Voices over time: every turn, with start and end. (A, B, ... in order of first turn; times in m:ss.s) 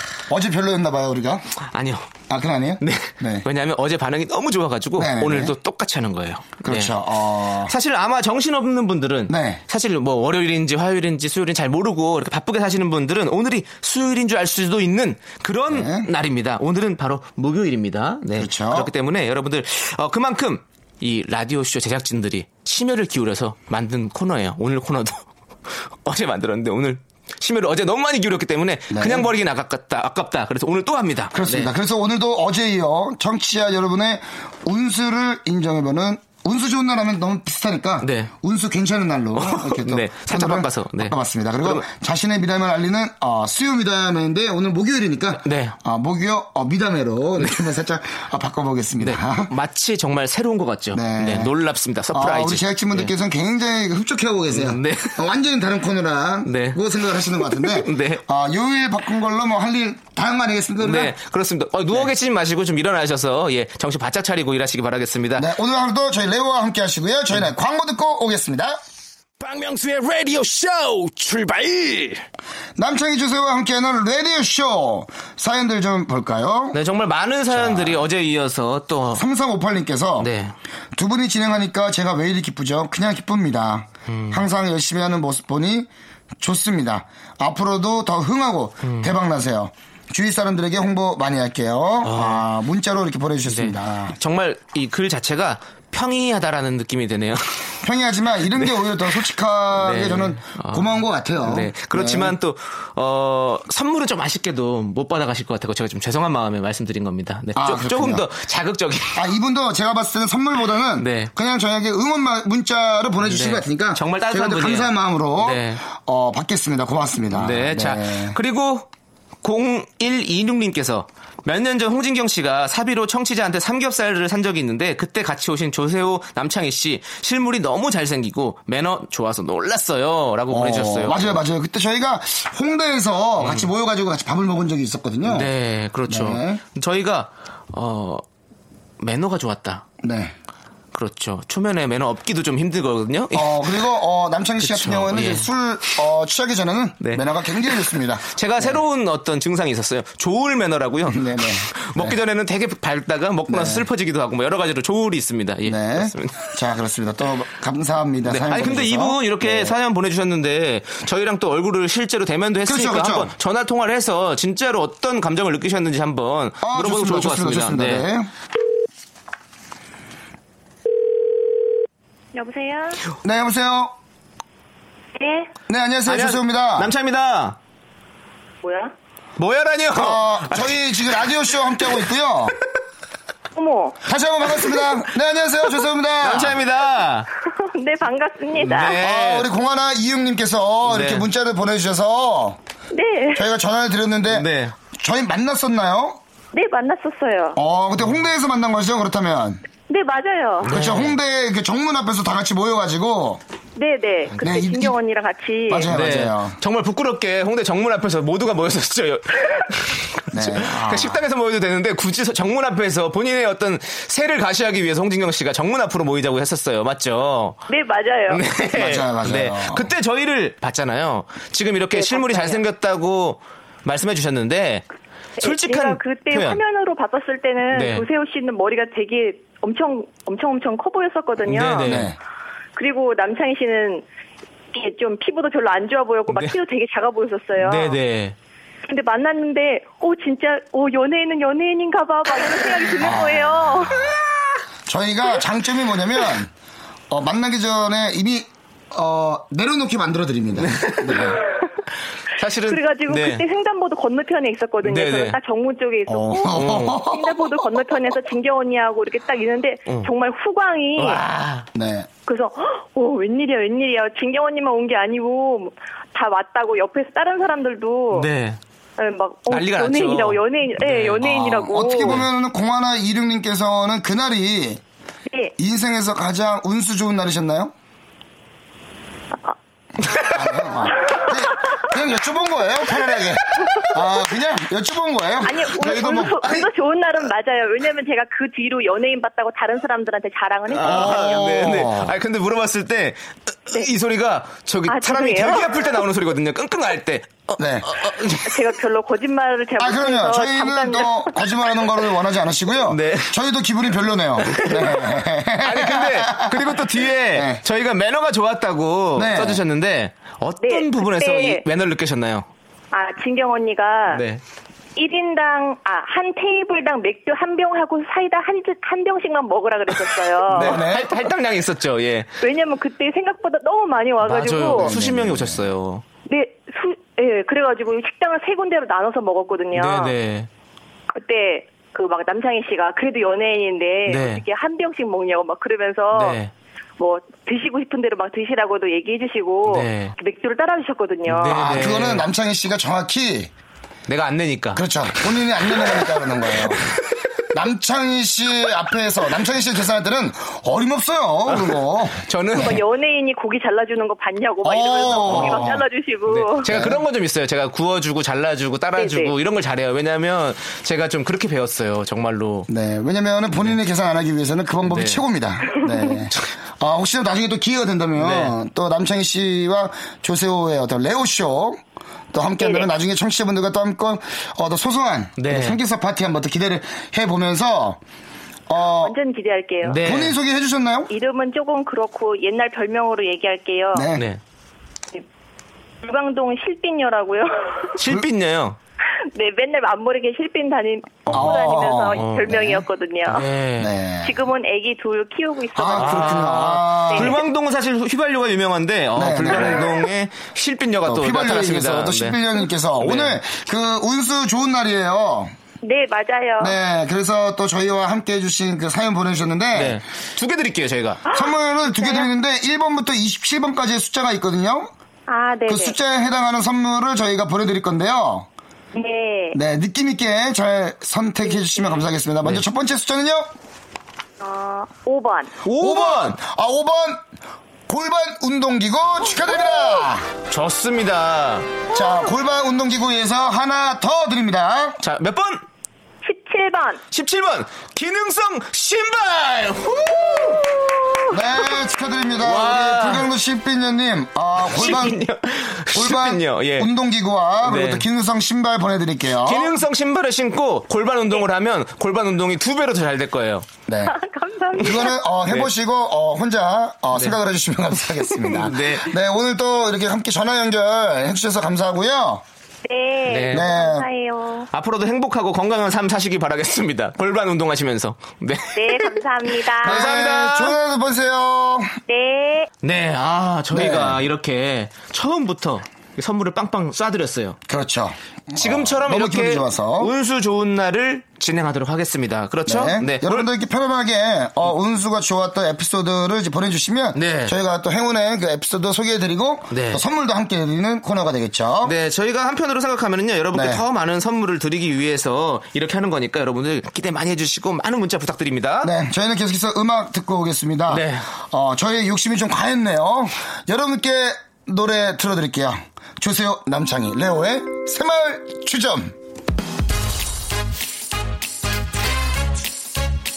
0:00.3-0:01.4 A
0:01.7-0:02.0 B
0:02.3-0:03.4 A
0:02.8-0:31.7 B
0:05.0-0:05.5 A
0:06.6-0:07.7 A
0:09.3-0:09.6 A
0:15.7-0:16.1 A
0:18.3-0:18.9 A
0:28.9-0:29.3 A
0:31.3-0:49.5 A
0:38.0-0:38.3 B
0:39.3-0:41.8 B
0:45.4-0:45.8 B
0:47.4-0:47.7 B
0:49.0-0:53.1 B
0:50.9-0:51.5 A
0:52.1-1:01.1 A
0:54.5-0:55.2 B
0:56.4-0:56.8 B
0:57.4-0:58.2 B
1:00.8-1:05.5 B
1:05.3-1:08.8 A
1:09.4-1:12.2 B
1:12.8-1:16.8 A
1:16.7-1:19.2 B
1:17.5-1:18.0 A
1:19.1-1:20.3 A
1:20.2-1:20.5 B
1:20.9-1:25.9 A
1:24.1-1:24.4 B
1:26.4-1:34.2 A
1:28.8-1:29.1 B
1:32.0-1:32.5 B
1:33.4-1:37.5 B
1:37.8-1:42.3 A
1:38.5-1:39.2 B
1:39.8-1:49.2 B
1:47.5-1:48.2 A
1:49.1-1:58.4 A
1:51.0-1:51.3 B
1:53.2-1:55.8 B
1:57.3-1:58.9 B
1:59.4-2:11.4 B
2:10.5-2:15.5 A
2:13.4-2:13.7 B
2:15.2-2:18.2 B
2:16.1-2:16.6 A
2:19.0-2:19.8 B
2:20.0-2:20.3 A
2:20.9-2:23.8 B
2:23.3-2:28.8 A
2:24.6-2:25.5 B
2:27.0-2:36.5 B
2:31.1-2:32.2 A
2:33.5-2:33.9 A
2:35.6-2:39.8 A
2:38.2-2:48.0 B
2:42.6-2:43.3 A
2:46.6-2:48.3 A
2:52.3-2:53.0 C
2:53.2-2:53.9 A
2:55.2-2:55.5 C
2:55.7-2:56.9 A
2:56.0-2:57.6 B
2:58.6-2:58.9 C
2:59.4-3:01.3 B
2:59.9-3:02.6 A
3:03.5-3:04.0 C
3:04.0-3:06.6 A
3:06.2-3:07.3 B
3:07.4-3:09.0 C
3:08.6-3:09.5 B
3:08.9-3:12.6 A
3:10.8-3:11.3 B
3:12.9-3:13.4 C
3:13.3-3:16.2 A
3:14.3-3:14.7 B
3:16.5-3:17.6 C
3:17.6-3:19.6 A
3:19.9-3:20.7 C
3:20.6-3:23.4 A
3:20.6-3:21.2 B
3:23.8-3:25.9 C
3:24.4-3:25.0 A
3:25.7-3:26.6 A
3:25.9-3:37.6 B
3:30.3-3:31.2 A
3:37.7-3:38.4 C
3:38.3-3:44.9 B
3:38.7-3:39.9 A
3:41.9-3:42.6 C
3:45.4-3:52.0 C
3:45.4-3:46.6 B
3:47.7-3:48.0 B
3:51.4-3:52.1 B
3:51.8-3:52.2 A
3:52.7-3:54.0 C
3:54.7-3:58.0 C
3:56.3-3:56.5 B
3:57.6-3:58.4 B
3:58.8-4:04.1 C
4:03.0-4:03.9 A
4:04.9-4:06.5 A
4:07.1-4:11.4 A
4:10.6-4:11.4 B
4:11.2-4:11.6 C
4:12.4-4:13.4 B
4:12.7-4:21.2 C
4:14.8-4:15.4 B
4:16.1-4:17.5 A
4:16.5-4:17.0 B
4:21.0-4:21.7 B
4:21.7-4:22.1 A
4:22.2-4:28.3 C
4:28.1-4:28.6 B
4:29.0-4:32.2 C
4:29.5-4:31.4 B
4:31.2-4:34.8 A
4:32.0-4:32.3 B
4:35.6-4:37.7 A
4:40.1-4:46.5 A
4:45.4-4:51.5 C
4:46.1-4:46.6 B
4:50.7-4:58.7 B
4:50.7-4:52.1 A
4:54.9-4:56.0 C
4:57.6-4:57.9 A
4:58.4-5:01.4 C
4:59.8-5:06.8 A
5:02.8-5:03.3 B
5:04.4-5:12.5 B
5:07.3-5:07.6 A
5:09.1-5:09.6 A
5:10.6-5:11.6 C
5:12.9-5:14.2 C
5:14.1-5:14.4 B
5:15.0-5:20.8 C
5:20.5-5:22.4 B
5:20.5-5:21.2 A
5:22.4-5:25.0 C
5:24.2-5:26.0 B
5:24.8-5:25.7 A
5:26.3-5:30.2 C
5:29.7-5:30.5 B
5:31.1-5:36.4 C
5:34.1-5:34.4 B
5:36.1-5:36.5 B
5:37.0-5:41.7 C
5:39.6-5:40.1 B
5:41.2-5:42.3 B
5:41.5-5:43.5 A
5:44.1-5:44.8 B
5:44.7-5:46.9 A
5:45.9-5:46.8 B
5:47.5-5:52.8 A
5:51.5-5:52.8 B
5:52.5-5:56.7 C
5:54.6-5:55.8 A
5:55.0-6:02.7 B
5:56.6-5:57.0 A
5:59.0-5:59.3 C
6:02.7-6:11.8 A
6:04.8-6:05.2 B
6:08.2-6:08.5 B
6:12.3-6:18.0 A
6:12.6-6:12.9 C
6:15.4-6:15.8 B
6:18.7-6:19.2 A
6:19.0-6:20.0 C
6:19.8-6:20.4 B
6:20.0-6:21.1 A
6:21.1-6:24.1 C
6:23.9-6:24.3 A
6:26.0-6:28.0 C
6:28.0-6:28.8 B
6:29.2-6:33.5 C
6:31.3-6:32.8 A
6:31.3-6:31.6 B
6:32.1-6:32.6 B
6:33.2-6:33.9 B
6:33.8-6:34.4 A
6:34.2-6:37.4 C
6:35.7-6:37.4 A
6:35.9-6:42.4 B
6:39.1-6:39.9 A
6:41.0-6:45.5 A
6:42.9-6:43.4 B
6:45.8-6:46.8 C
6:46.6-6:50.0 A
6:49.7-6:51.3 B
6:51.3-6:54.9 A
6:51.8-6:52.3 C
6:55.3-6:56.0 C
6:55.7-6:58.5 A
6:58.9-6:59.6 C
6:59.5-7:03.5 A
7:04.4-7:05.5 C
7:05.6-7:06.4 B
7:05.7-7:07.2 A
7:07.9-7:10.3 A
7:10.5-7:11.8 B
7:11.9-7:15.0 A
7:15.0-7:15.6 B
7:16.2-7:17.0 C
7:17.1-7:21.8 B
7:21.3-7:25.2 A
7:22.4-7:23.3 B
7:24.7-7:26.9 B
7:25.9-7:29.8 A
7:27.6-7:28.0 B
7:29.4-7:33.7 B
7:33.9-7:34.1 A
7:34.0-7:35.1 C
7:34.8-7:42.4 A
7:38.4-7:39.1 B
7:42.8-7:44.7 C
7:43.3-7:43.7 B
7:43.5-7:44.0 A
7:44.7-7:50.8 B
7:48.7-7:50.1 C
7:49.8-7:51.9 A
7:52.1-7:52.7 C
7:52.8-7:57.6 B
7:53.7-7:54.2 A
7:57.7-8:00.1 A
7:58.6-8:03.5 B
8:02.6-8:12.0 A
8:07.1-8:07.5 B
8:09.7-8:10.0 B
8:11.8-8:18.9 B
8:13.5-8:13.8 A
8:18.8-8:29.1 A
8:20.9-8:21.2 B